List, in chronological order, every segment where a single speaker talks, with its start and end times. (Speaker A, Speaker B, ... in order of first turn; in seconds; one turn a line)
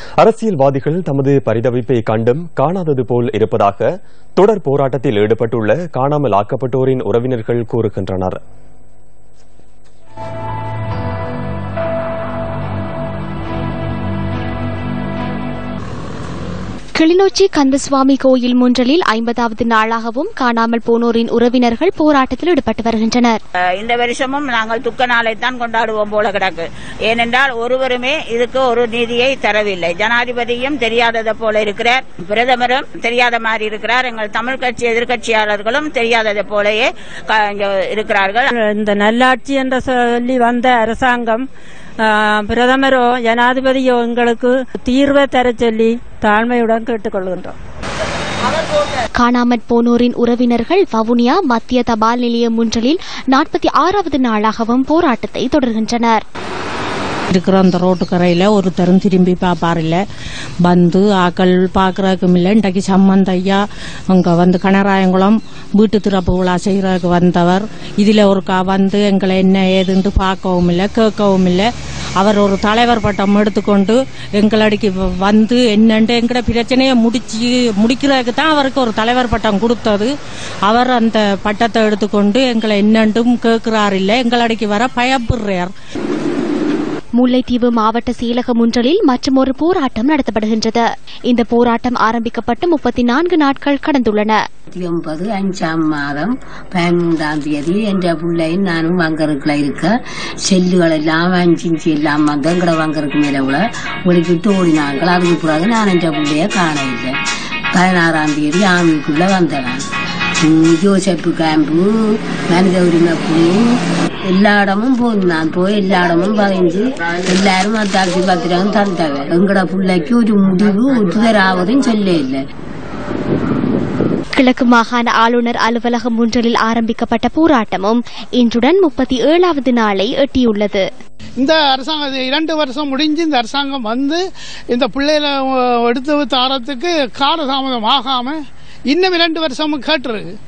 Speaker A: 0.2-8.4
Speaker B: 17.0-23.4
Speaker C: 23.8-38.5
Speaker D: 38.6-41.5
Speaker D: 42.0-47.6
Speaker B: 49.2-56.2
Speaker E: 57.3-60.0
Speaker E: 60.6-71.7
Speaker E: 72.2-80.1
Speaker E: 80.7-85.7
Speaker B: 87.2-94.4
Speaker F: 94.7-99.9
Speaker F: 100.5-107.2
Speaker F: 107.7-109.8
Speaker F: 110.4-113.8
Speaker F: 114.3-122.4
Speaker B: 124.4-130.9
Speaker G: 131.4-138.4
Speaker G: 138.9-140.3